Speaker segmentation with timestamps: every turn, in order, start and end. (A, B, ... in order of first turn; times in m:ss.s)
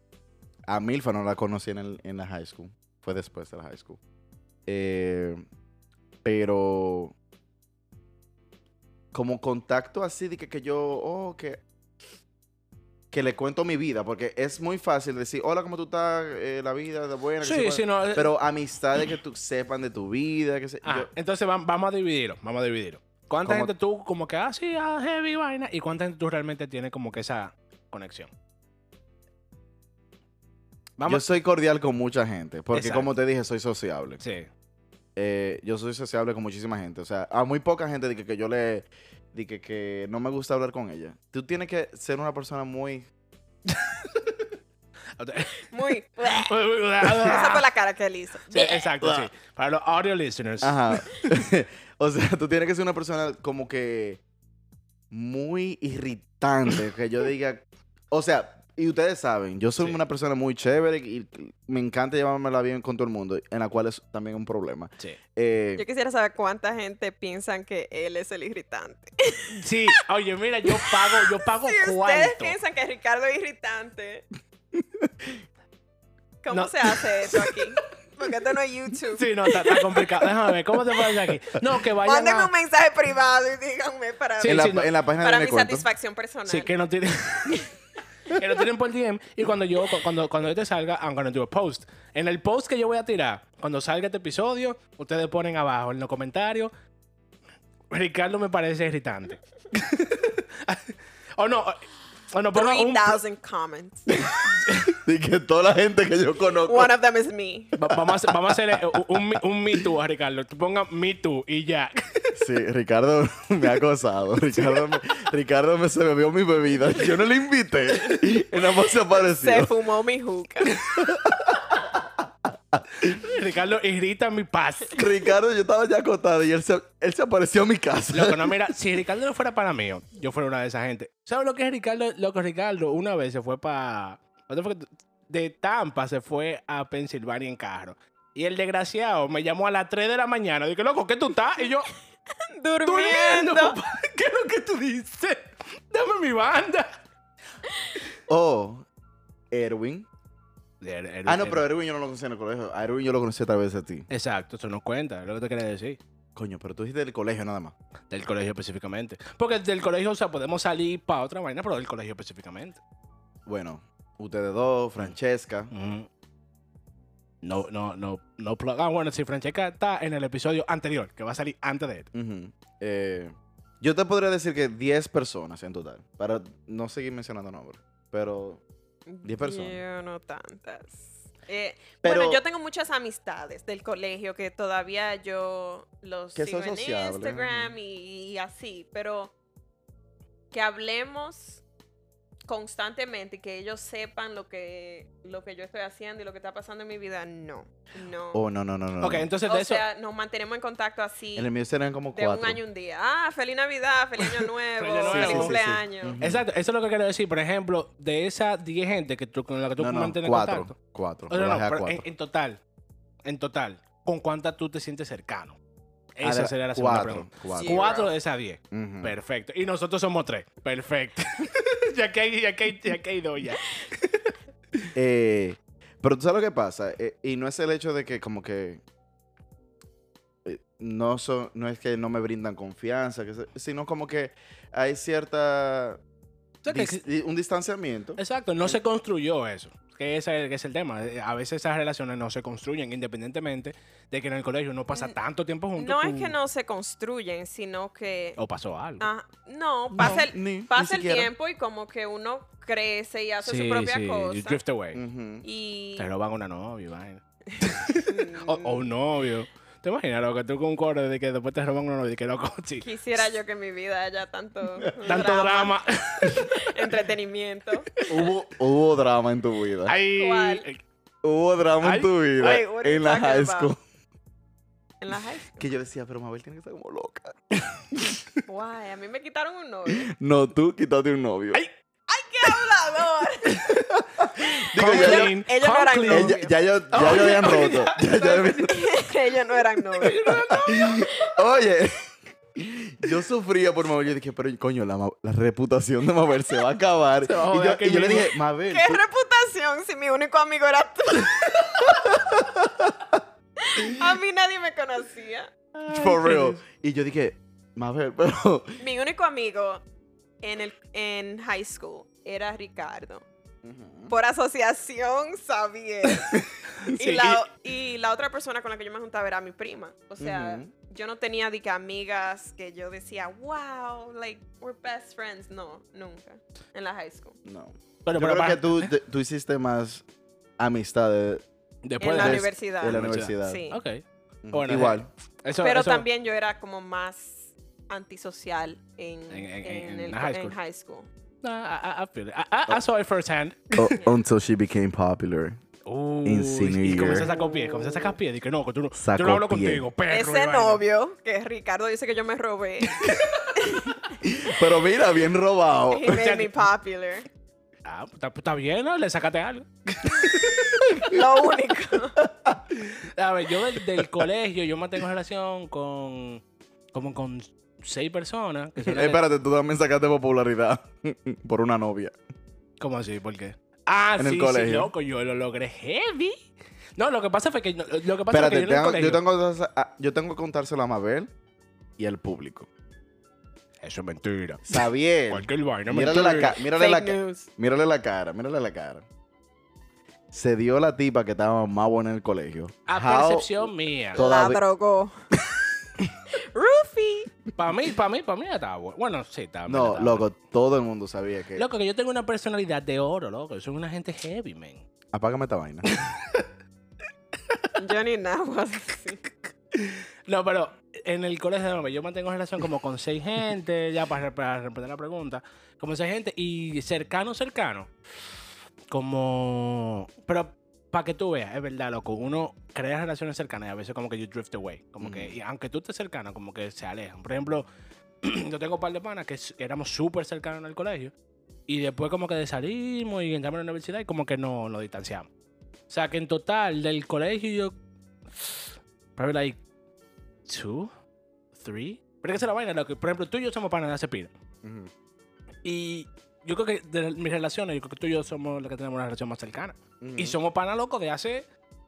0:00.7-0:04.0 A
0:04.7-0:05.4 A
0:06.2-0:07.2 A
0:09.1-0:11.6 A
0:13.1-0:21.1 A
0:17.4-0:18.4 B
0:20.8-0:28.3 B
0:23.4-0:23.7 A
0:31.0-0:31.3 B
0:31.1-0:34.2 A
0:32.7-0:33.1 B
0:34.2-0:34.5 B
0:35.2-0:43.1 A
0:43.7-0:44.5 B
0:45.2-0:45.7 B
0:45.6-0:48.9 C
0:46.3-0:47.6 B
0:48.5-0:51.3 B
0:50.6-0:54.2 A
0:55.1-1:05.8 A
1:05.8-1:09.6 C
1:09.5-1:12.6 B
1:10.7-1:14.2 C
1:14.7-1:15.4 A
1:16.4-1:20.2 C
1:16.5-1:17.5 B
1:19.2-1:22.5 B
1:22.0-1:26.7 C
1:24.4-1:24.9 B
1:24.4-1:25.9 A
1:26.5-1:27.7 B
1:28.3-1:36.7 B
1:37.9-1:43.2 B
1:42.5-1:44.1 C
1:44.5-1:44.9 B
1:44.8-1:46.9 A
1:46.6-1:47.8 C
1:47.8-1:52.4 B
1:47.9-1:49.4 A
1:52.4-1:59.7 A
1:59.4-2:00.8 C
2:00.8-2:03.1 A
2:03.0-2:05.0 B
2:05.0-2:08.6 A
2:08.1-2:21.9 B
2:22.5-2:23.8 C
2:22.8-2:27.0 B
2:28.3-2:28.8 A
2:29.5-2:30.1 A
2:30.8-2:31.7 B
2:31.2-2:34.1 A
2:34.1-2:36.0 B
2:36.4-2:37.7 A
2:38.1-2:42.8 B
2:43.5-2:45.7 A
2:45.7-2:46.1 B
2:47.4-2:52.1 B
2:52.1-2:58.6 A
2:59.1-3:09.3 C
2:59.2-2:59.8 A
3:02.0-3:02.4 A
3:06.4-3:07.7 A
3:10.5-3:11.6 C
3:12.5-3:18.4 C
3:18.3-3:19.3 A
3:19.0-3:19.8 B
3:19.5-3:21.5 C
3:21.3-3:22.6 A
3:22.2-3:26.2 C
3:24.8-3:25.6 B
3:25.0-3:26.4 A
3:26.2-3:30.7 B
3:29.8-3:32.0 A
3:31.3-3:32.6 B
3:33.2-3:35.6 B
3:36.2-3:44.4 B
3:36.2-3:38.0 A
3:37.5-3:38.1 C
3:38.7-3:39.2 A
3:45.0-3:48.8 A
3:50.4-3:56.0 A
3:56.6-3:57.0 B
3:56.7-3:58.8 A
3:58.2-4:06.3 B
4:05.8-4:08.4 C
4:08.4-4:09.1 B
4:09.0-4:14.6 C
4:09.9-4:11.3 A
4:13.4-4:15.0 B
4:14.9-4:15.4 A
4:15.4-4:16.1 C
4:16.0-4:22.9 B
4:17.6-4:18.9 C
4:22.8-4:28.0 C
4:24.8-4:25.2 A
4:25.0-4:26.6 B
4:28.0-4:28.2 B
4:28.1-4:30.0 A
4:29.8-4:30.8 B
4:30.1-4:30.7 C
4:31.2-4:33.8 A
4:31.8-4:32.1 B
4:32.4-4:33.7 C
4:35.0-4:35.7 C
4:35.6-4:37.4 A
4:38.5-4:40.1 C
4:39.9-4:41.6 A
4:42.1-4:43.8 C
4:43.4-4:44.0 B
4:43.9-4:45.4 A
4:44.8-4:46.4 B
4:44.8-4:47.5 C
4:46.1-4:48.8 A
4:46.9-4:48.8 B
4:48.2-4:50.4 C
4:49.9-4:51.0 B
4:50.2-4:59.0 A
4:51.0-4:51.4 C
4:57.2-4:58.3 B
4:58.7-5:01.7 C
5:01.8-5:03.2 A
5:03.6-5:05.5 C
5:05.8-5:06.6 B
5:05.9-5:08.8 A
5:08.8-5:09.8 C
5:10.4-5:13.2 C
5:13.6-5:14.1 A
5:14.1-5:27.4 C
5:16.8-5:17.4 B
5:20.2-5:20.7 A
5:27.4-5:30.0 A
5:28.0-5:28.9 B
5:30.6-5:31.4 A
5:31.8-5:36.0 B
5:32.0-5:33.8 C
5:32.2-5:33.6 A
5:34.4-5:35.1 A
5:35.6-5:41.1 C
5:39.3-5:40.6 B
5:41.4-5:44.0 B
5:43.7-5:45.6 A
5:45.8-5:50.8 B
5:46.2-5:47.3 A
5:47.0-5:48.0 C
5:48.9-5:49.8 A
5:50.1-5:54.2 C
5:53.0-5:53.5 B
5:54.2-5:56.3 A
5:55.9-5:57.2 C
5:56.1-5:56.5 B
5:57.8-6:00.8 B
6:00.9-6:02.2 C
6:02.2-6:02.6 A
6:02.7-6:09.2 B
6:08.8-6:12.2 A
6:12.8-6:19.2 B
6:14.2-6:14.9 A
6:18.3-6:21.3 A
6:22.0-6:22.7 A
6:23.8-6:26.6 B
6:24.7-6:29.0 A
6:26.5-6:27.5 C
6:30.3-6:34.6 A
6:32.9-6:34.2 B
6:34.2-6:35.2 C
6:36.3-6:37.3 C
6:37.6-6:40.3 B
6:39.7-6:41.7 A
6:41.6-6:44.8 B
6:45.1-6:45.9 A
6:45.9-6:46.5 B
6:47.8-6:49.3 C
6:49.7-6:57.9 B
6:58.9-7:07.7 B
7:05.0-7:05.4 A
7:08.2-7:11.1 B
7:11.7-7:15.3 B
7:15.9-7:17.8 B
7:19.2-7:19.6 B
7:20.5-7:20.9 B
7:21.5-7:24.3 B
7:24.6-7:24.9 A
7:25.6-7:31.5 B
7:30.0-7:30.4 A